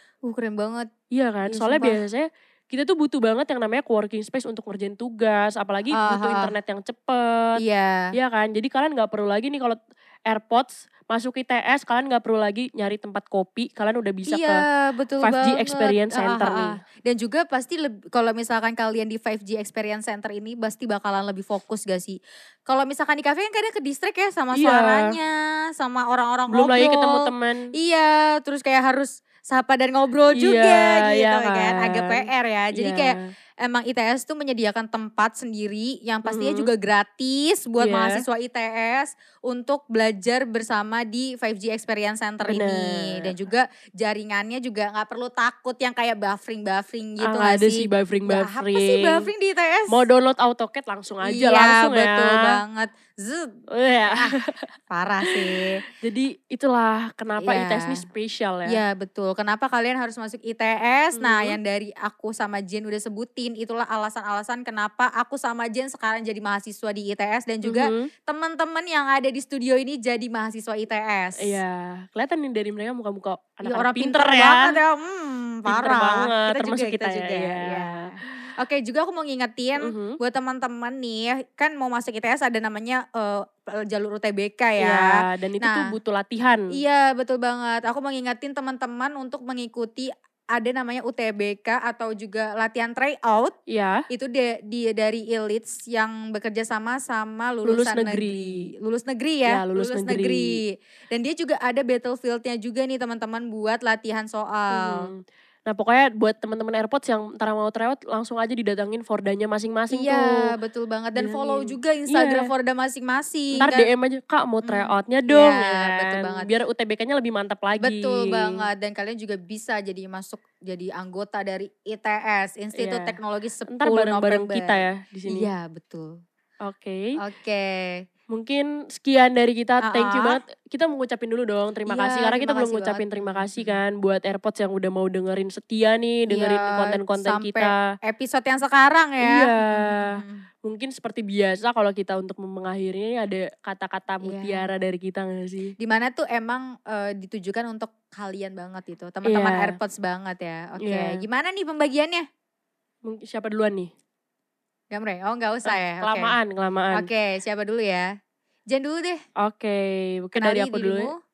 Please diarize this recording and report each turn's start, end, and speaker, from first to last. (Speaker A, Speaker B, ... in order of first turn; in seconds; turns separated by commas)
Speaker A: 0.2-0.9, Speaker B: 1.1-7.6, Speaker A: 1.5-2.0, Speaker A: 5.9-6.5, Speaker A: 7.6-8.1, Speaker B: 8.1-14.7, Speaker A: 14.3-50.0, Speaker B: 15.2-16.8, Speaker B: 24.5-25.2, Speaker B: 26.5-27.7, Speaker B: 30.3-33.3, Speaker B: 36.3-36.7, Speaker B: 37.8-38.2, Speaker B: 42.5-43.3, Speaker B: 47.2-49.3, Speaker B: 49.9-52.6, Speaker A: 51.2-53.6, Speaker B: 53.7-54.7, Speaker A: 54.1-54.4, Speaker A: 54.9-55.8, Speaker B: 55.2-58.8, Speaker A: 57.4-58.0, Speaker A: 58.7-71.6, Speaker B: 61.1-61.6, Speaker B: 67.6-68.1, Speaker B: 71.4-74.8, Speaker A: 73.7-85.9, Speaker B: 75.7-78.1, Speaker B: 79.8-80.2, Speaker B: 84.8-86.7, Speaker A: 86.7-93.6, Speaker B: 93.7-94.1, Speaker A: 94.1-105.1, Speaker B: 97.7-98.6, Speaker B: 99.5-100.6, Speaker B: 104.7-110.5, Speaker A: 109.9-113.9, Speaker B: 111.2-112.5, Speaker B: 113.6-118.7, Speaker A: 114.7-116.5, Speaker A: 117.8-126.2, Speaker B: 122.8-123.2, Speaker B: 123.7-125.5, Speaker B: 126.7-127.1, Speaker A: 127.2-128.0, Speaker B: 128.3-137.8, Speaker A: 129.8-130.4, Speaker A: 131.9-133.8, Speaker A: 136.3-140.4, Speaker B: 139.2-145.7, Speaker A: 144.2-144.7, Speaker A: 145.8-152.3, Speaker B: 149.2-149.8, Speaker B: 150.8-151.2, Speaker B: 153.1-153.9, Speaker A: 154.9-156.3, Speaker B: 155.7-157.1, Speaker A: 156.9-158.1, Speaker A: 158.7-159.2, Speaker B: 159.4-161.1, Speaker A: 160.4-161.2